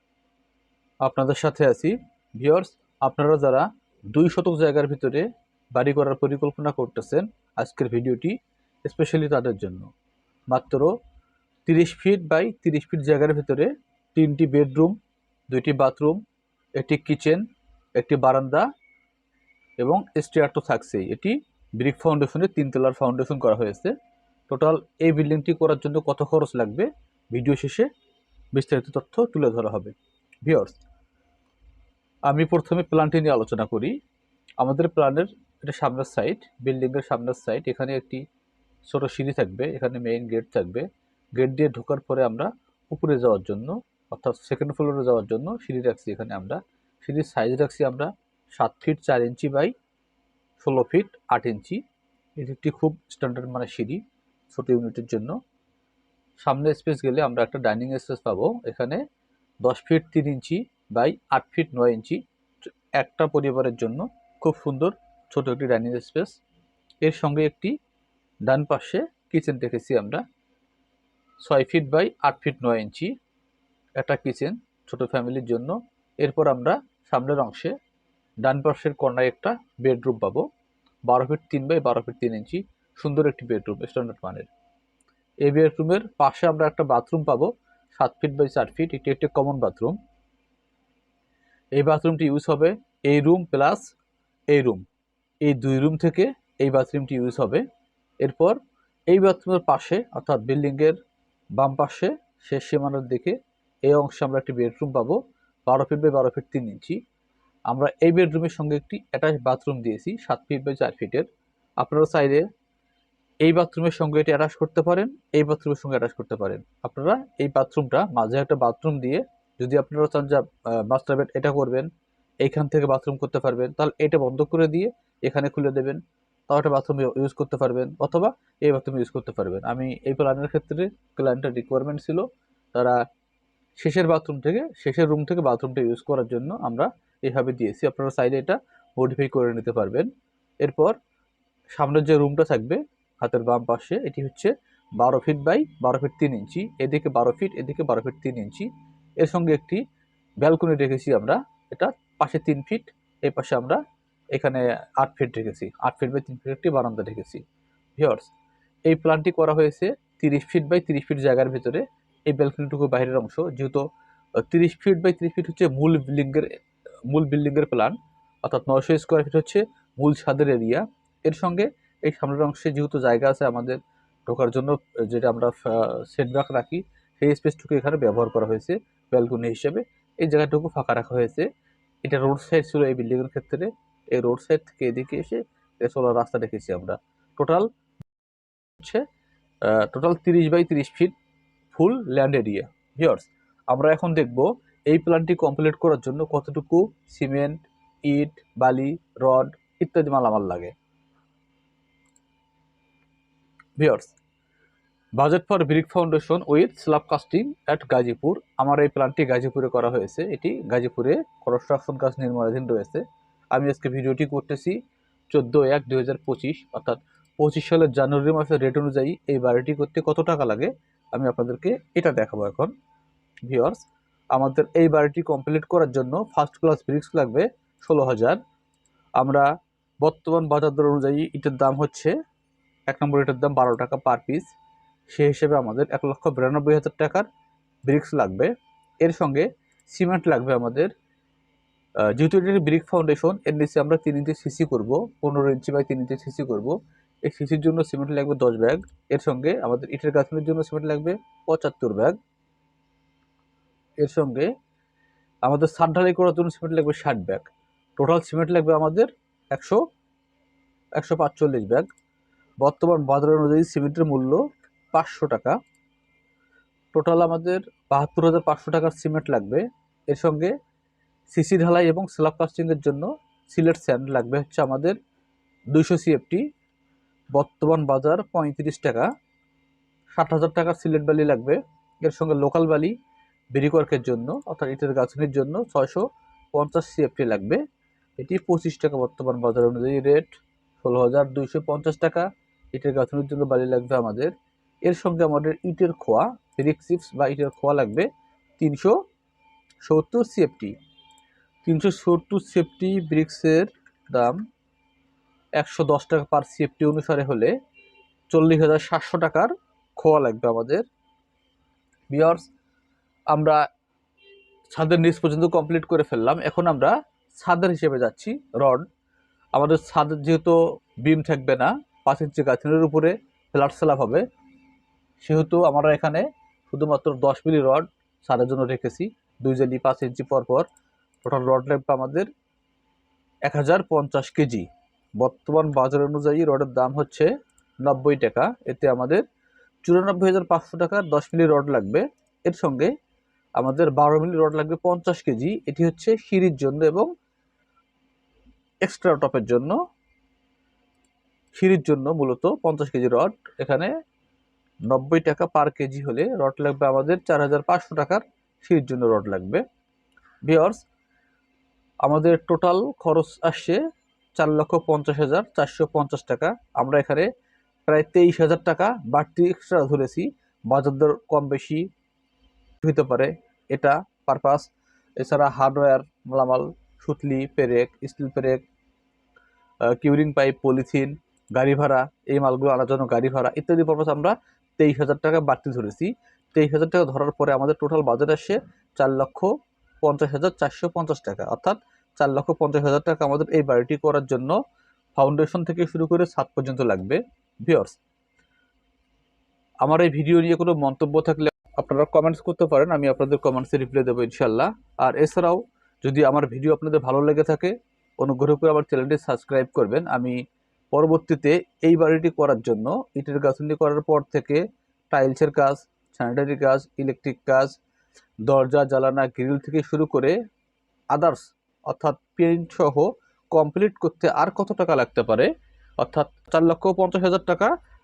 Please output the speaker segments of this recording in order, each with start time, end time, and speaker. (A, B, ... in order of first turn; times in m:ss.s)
0:01.0-0:09.9 A
0:10.5-0:10.9 A
0:11.7-0:15.0 A
0:15.5-0:16.2 A
0:16.8-0:17.4 A
0:18.0-0:18.7 A
0:19.8-0:24.0 A
0:24.5-0:27.9 A
0:28.5-0:30.8 A
0:32.3-0:34.0 A
0:34.6-0:38.2 A
0:38.9-0:49.7 A
0:50.6-0:51.8 A
0:52.4-0:55.4 A
0:56.4-0:59.0 A
0:59.6-1:02.2 A
1:03.0-1:06.4 A
1:07.0-1:07.7 A
1:08.5-1:10.2 A
1:11.4-1:13.1 A
1:14.0-1:17.7 A
1:18.4-1:20.5 A
1:21.1-1:24.5 A
1:25.4-1:30.0 A
1:31.8-1:33.8 A
1:34.5-1:34.8 A
1:35.4-1:37.6 A
1:38.2-1:38.6 A
1:39.1-1:41.0 A
1:41.6-1:47.0 A
1:47.7-1:51.3 A
1:51.8-1:52.4 A
1:53.4-2:01.9 A
2:02.4-2:13.0 A
2:13.8-2:20.1 A
2:20.6-2:20.9 A
2:21.8-2:28.7 A
2:29.2-2:29.8 A
2:30.4-2:33.8 A
2:34.3-2:37.4 A
2:38.0-2:38.3 A
2:38.9-2:43.8 A
2:44.4-2:46.5 A
2:47.1-3:01.5 A
3:02.0-3:07.7 A
3:08.8-3:09.0 A
3:09.6-3:11.1 A
3:11.7-3:20.7 A
3:23.8-3:24.1 A
3:25.2-3:34.8 A
3:35.3-3:42.7 A
3:43.4-3:43.8 A
3:44.3-3:48.4 A
3:49.2-3:49.5 A
3:50.0-3:52.1 A
3:52.9-3:54.5 A
3:55.1-3:57.3 A
3:57.9-3:58.5 A
3:59.0-4:00.9 A
4:02.1-4:12.2 A
4:14.0-4:14.5 A
4:15.4-4:17.5 A
4:18.0-4:19.8 A
4:21.0-4:21.9 A
4:22.6-4:24.4 A
4:24.9-4:25.6 A
4:26.9-4:30.5 A
4:31.3-4:35.0 A
4:35.7-4:36.4 A
4:37.4-4:39.1 A
4:40.2-4:42.9 A
4:43.5-4:47.6 A
4:48.2-4:54.3 A
4:54.8-4:58.1 A
4:58.6-4:59.0 A
4:59.8-5:00.8 A
5:01.6-5:04.4 A
5:05.6-5:07.5 A
5:08.3-5:10.8 A
5:12.1-5:12.5 A
5:13.3-5:13.6 A
5:14.7-5:18.8 A
5:19.5-5:24.2 A
5:25.2-5:30.7 A
5:31.2-5:32.3 A
5:33.5-5:34.7 A
5:35.2-5:37.3 A
5:37.8-5:39.2 A
5:39.8-5:42.9 A
5:43.6-5:47.1 A
5:48.8-5:49.8 A
5:51.6-5:53.9 A
5:54.9-5:59.6 A
6:00.4-6:00.8 A
6:02.0-6:03.8 A
6:04.4-6:07.3 A
6:07.9-6:11.9 A
6:12.8-6:18.6 A
6:19.8-6:29.5 A
6:30.0-6:34.6 A
6:35.2-6:37.9 A
6:39.8-6:50.4 A
6:50.9-6:57.8 A
6:58.5-7:00.4 A
7:01.1-7:05.5 A
7:06.0-7:07.7 A